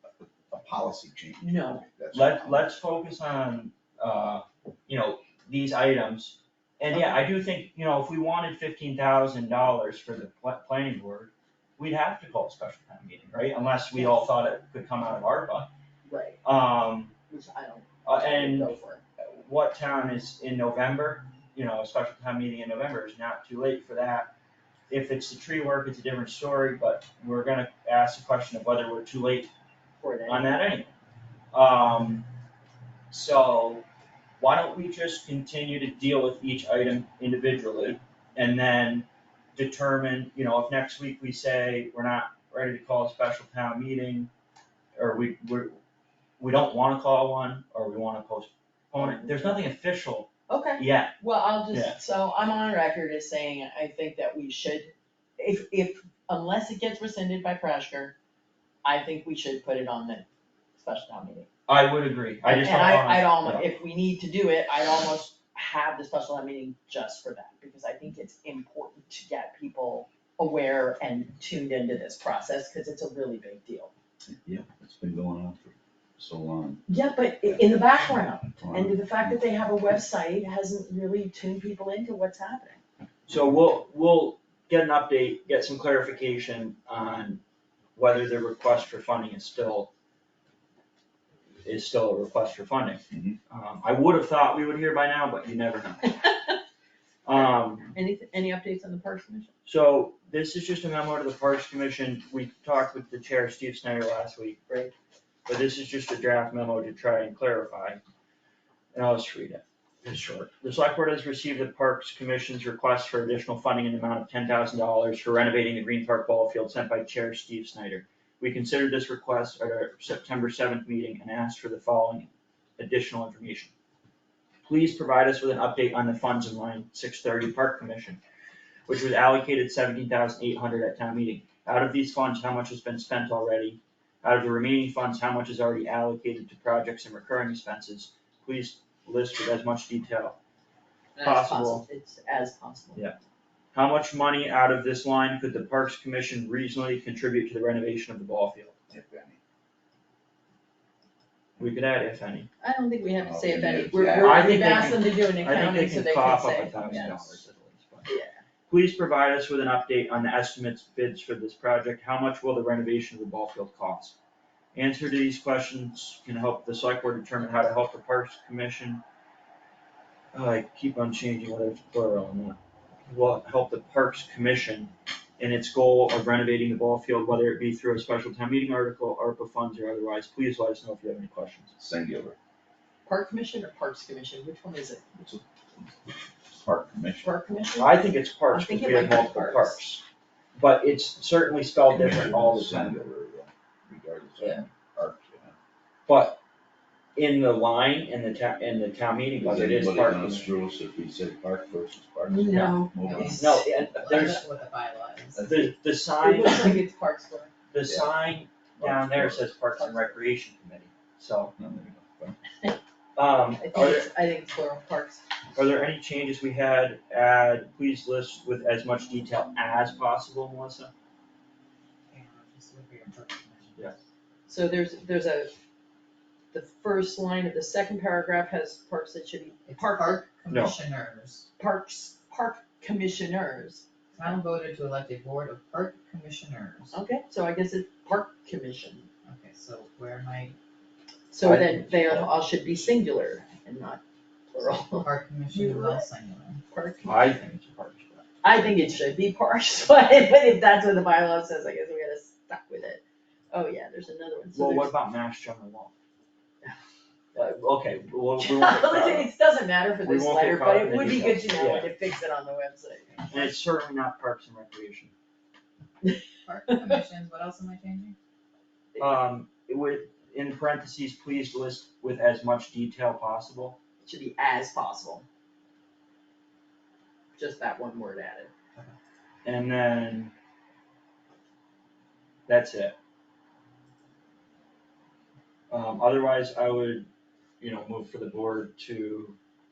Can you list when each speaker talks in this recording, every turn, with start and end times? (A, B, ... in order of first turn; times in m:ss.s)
0:00.2-0:02.7 A
0:01.4-0:01.9 B
0:02.1-0:15.7 C
0:06.9-0:07.2 B
0:13.9-0:14.2 B
0:16.1-0:16.4 B
0:16.4-0:17.2 C
0:17.3-0:19.0 B
0:18.0-0:24.3 C
0:24.9-0:29.5 C
0:30.0-0:30.7 B
0:30.3-0:30.9 C
0:31.5-0:32.3 C
0:33.1-0:33.8 C
0:34.4-0:44.3 C
0:45.0-0:45.8 C
0:46.4-0:51.2 C
0:49.0-0:49.6 B
0:50.5-0:58.2 B
0:51.7-0:52.0 C
0:58.8-1:01.5 B
1:01.7-1:03.7 C
1:02.4-1:13.9 B
1:14.3-1:16.8 A
1:16.9-1:22.8 B
1:18.6-1:19.4 A
1:23.3-1:27.4 C
1:28.0-1:29.9 C
1:31.6-1:36.2 C
1:33.1-1:33.4 A
1:36.2-1:36.6 B
1:37.2-1:38.0 C
1:37.3-1:39.5 B
1:39.6-1:44.6 C
1:45.5-1:48.0 C
1:48.9-2:03.7 C
2:04.6-2:08.2 C
2:08.9-2:20.4 C
2:21.2-2:23.0 B
2:21.2-2:21.8 C
2:23.7-2:28.8 C
2:28.9-2:29.4 A
2:31.6-2:32.5 C
2:32.6-2:37.4 B
2:33.2-2:34.6 A
2:34.2-2:38.1 C
2:38.1-2:38.4 B
2:38.7-2:44.2 C
2:44.7-2:49.0 C
2:50.3-3:01.7 C
3:01.8-3:02.4 A
3:03.1-3:05.1 B
3:05.2-3:07.4 A
3:07.2-3:09.8 B
3:07.8-3:10.0 C
3:10.6-3:13.0 C
3:11.9-3:15.6 A
3:16.1-3:16.4 C
3:17.2-3:20.5 C
3:19.4-3:23.6 A
3:22.3-3:23.2 B
3:22.5-3:24.4 C
3:23.0-3:25.4 D
3:25.4-3:26.8 C
3:26.2-3:27.5 B
3:27.7-3:31.6 C
3:27.8-3:28.2 A
3:28.8-3:29.5 A
3:29.8-3:30.2 B
3:31.6-3:32.4 A
3:33.2-3:34.1 C
3:33.6-3:35.2 B
3:35.5-3:40.9 C
3:42.1-3:44.0 D
3:44.5-3:45.5 B
3:46.5-3:50.2 B
3:49.7-3:51.5 D
3:50.5-3:50.8 C
3:51.6-3:53.8 B
3:54.1-3:56.9 D
3:56.9-3:59.1 B
3:59.3-4:00.6 D
4:01.3-4:06.0 B
4:01.4-4:02.3 C
4:05.0-4:06.6 D
4:06.7-4:07.3 B
4:07.0-4:08.3 C
4:08.4-4:14.9 B
4:14.5-4:15.9 C
4:17.4-4:19.3 C
4:18.4-4:23.5 B
4:20.0-4:21.9 C
4:23.3-4:25.1 C
4:26.0-4:26.9 B
4:26.4-4:28.2 D
4:29.0-4:33.8 C
4:34.0-4:35.2 B
4:37.4-4:38.5 B
4:39.4-4:40.3 C
4:42.5-4:43.0 C
4:45.7-4:47.1 C
4:47.6-4:49.4 C